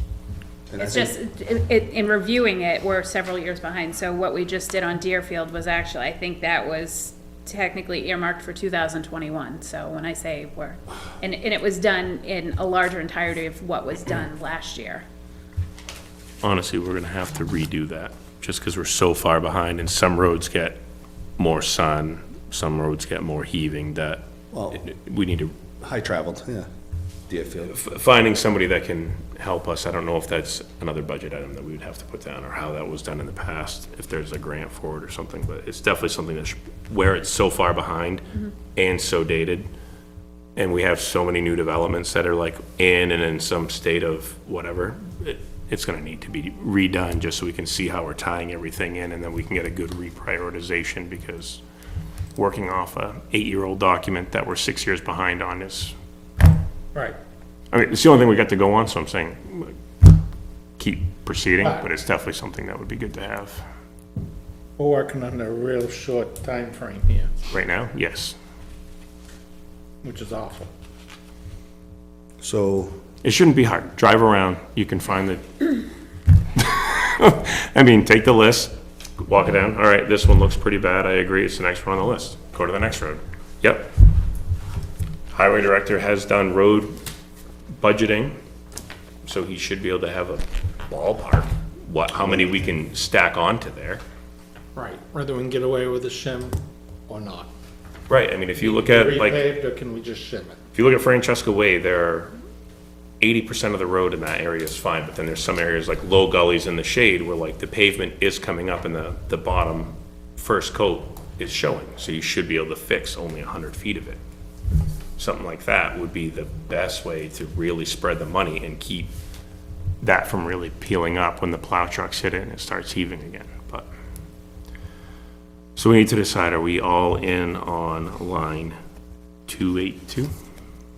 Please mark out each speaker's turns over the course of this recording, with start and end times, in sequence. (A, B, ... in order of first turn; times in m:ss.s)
0:00.7-0:01.1 A
0:00.8-0:15.0 B
0:16.4-0:20.8 C
0:21.4-0:25.6 C
0:24.5-0:24.8 A
0:25.8-0:26.7 A
0:27.3-0:27.8 A
0:27.7-0:39.7 C
0:40.6-0:51.6 C
0:52.4-0:56.0 C
0:57.7-0:59.8 C
1:00.8-1:03.6 C
1:01.6-1:01.9 D
1:04.8-1:07.3 D
1:07.5-1:08.4 C
1:10.0-1:10.7 D
1:12.4-1:13.0 A
1:13.2-1:15.7 C
1:16.6-1:23.9 C
1:25.3-1:27.0 C
1:27.8-1:28.4 C
1:29.2-1:34.0 C
1:34.8-1:37.5 D
1:38.1-1:39.5 C
1:38.6-1:40.6 D
1:40.7-1:42.3 C
1:43.2-1:54.2 C
1:55.2-1:59.1 C
2:00.0-2:03.9 C
2:05.8-2:08.8 C
2:09.5-2:10.3 C